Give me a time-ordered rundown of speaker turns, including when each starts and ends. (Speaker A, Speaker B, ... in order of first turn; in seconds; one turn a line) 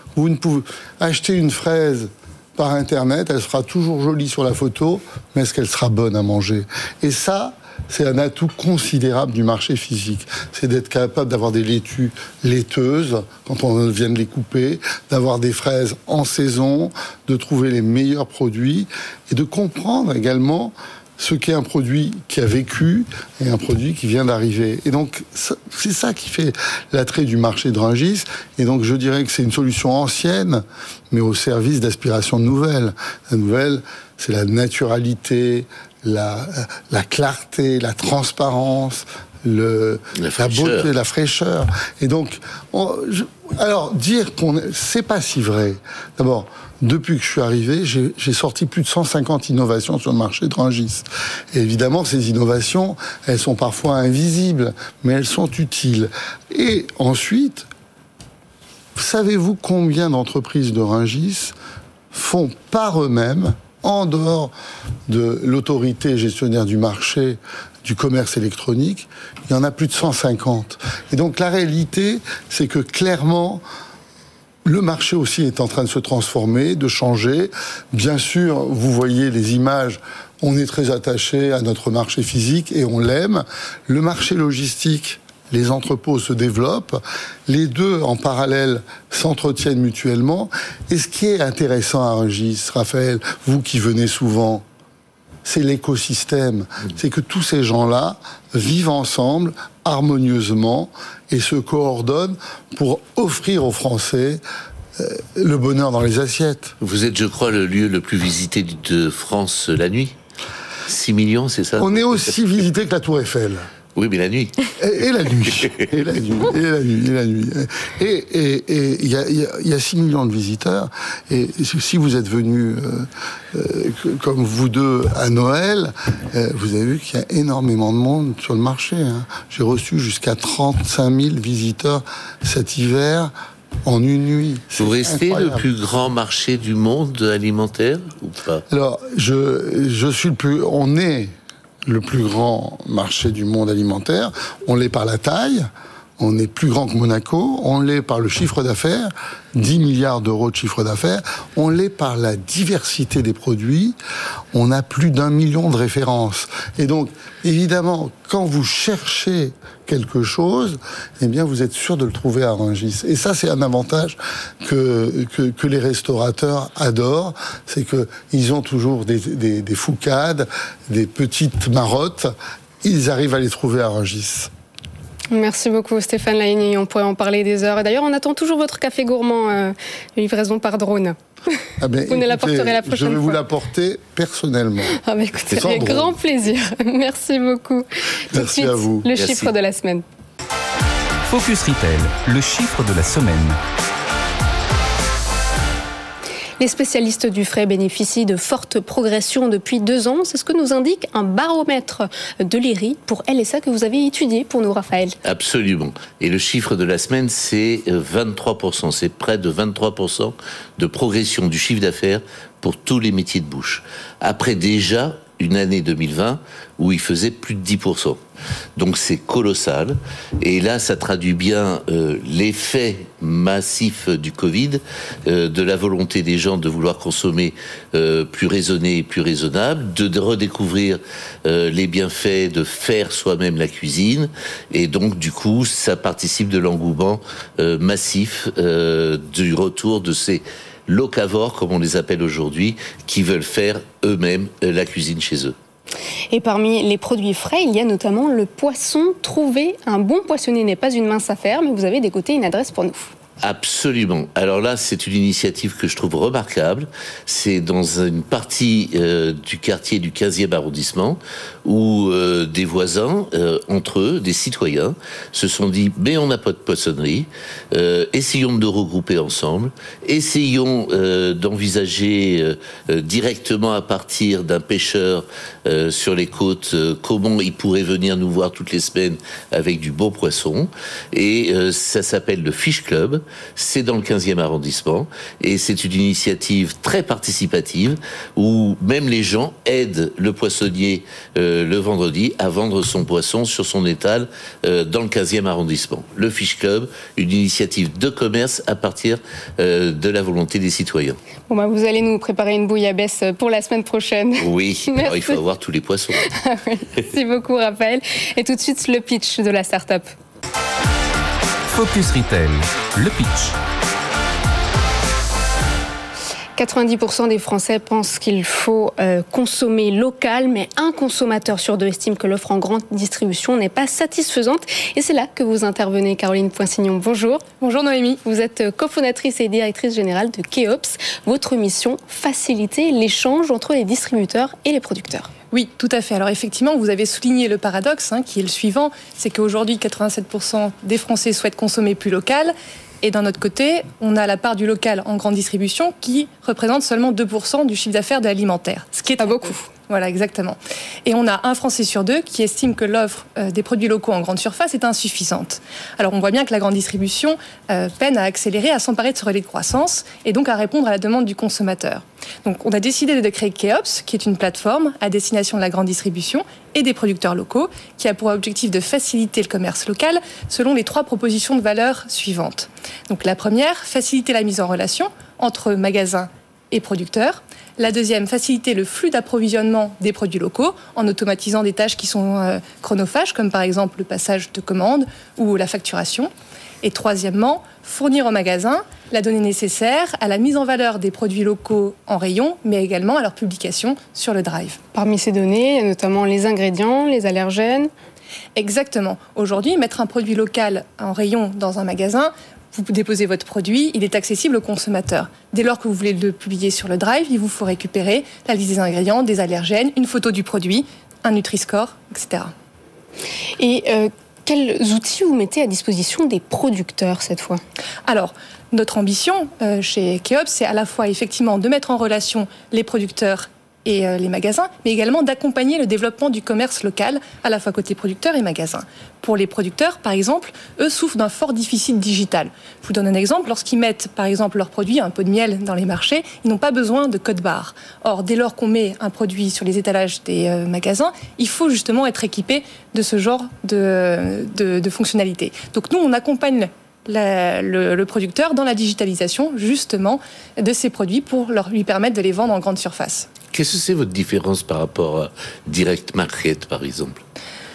Speaker A: 0.1-57.7
Speaker B: 40.2-40.9
Speaker A: 59.0-61.5
Speaker A: 62.1-64.5
Speaker A: 65.1-73.6
Speaker A: 74.7-94.6
Speaker A: 95.5-104.4
Speaker A: 105.0-106.7
Speaker B: 106.8-110.1
Speaker B: 110.9-112.3
Speaker A: 111.8-113.7
Speaker B: 114.0-114.7
Speaker A: 114.8-133.3
Speaker A: 133.8-135.7
Speaker B: 134.8-138.6
Speaker A: 138.7-141.3
Speaker A: 141.9-154.0
Speaker A: 154.5-174.5
Speaker C: 175.3-181.5
Speaker A: 181.8-186.2
Speaker C: 182.1-183.4
Speaker C: 185.0-190.0
Speaker A: 188.3-189.1
Speaker B: 189.2-189.5
Speaker D: 191.3-193.6
Speaker C: 196.6-205.2
Speaker B: 205.2-218.2
Speaker B: 218.8-245.5
Speaker C: 246.3-253.1
Speaker B: 253.4-301.2
Speaker C: 301.5-305.4
Speaker B: 304.4-306.3
Speaker C: 306.3-310.1
Speaker D: 311.7-313.6
Speaker C: 316.6-327.4
Speaker E: 327.6-328.2
Speaker C: 328.2-335.3
Speaker E: 335.5-386.3
Speaker C: 349.2-349.6
Speaker E: 386.8-394.8
Speaker C: 394.9-397.9
Speaker E: 398.6-412.5
Speaker C: 413.6-417.6
Speaker E: 418.1-453.3
Speaker B: 453.5-457.2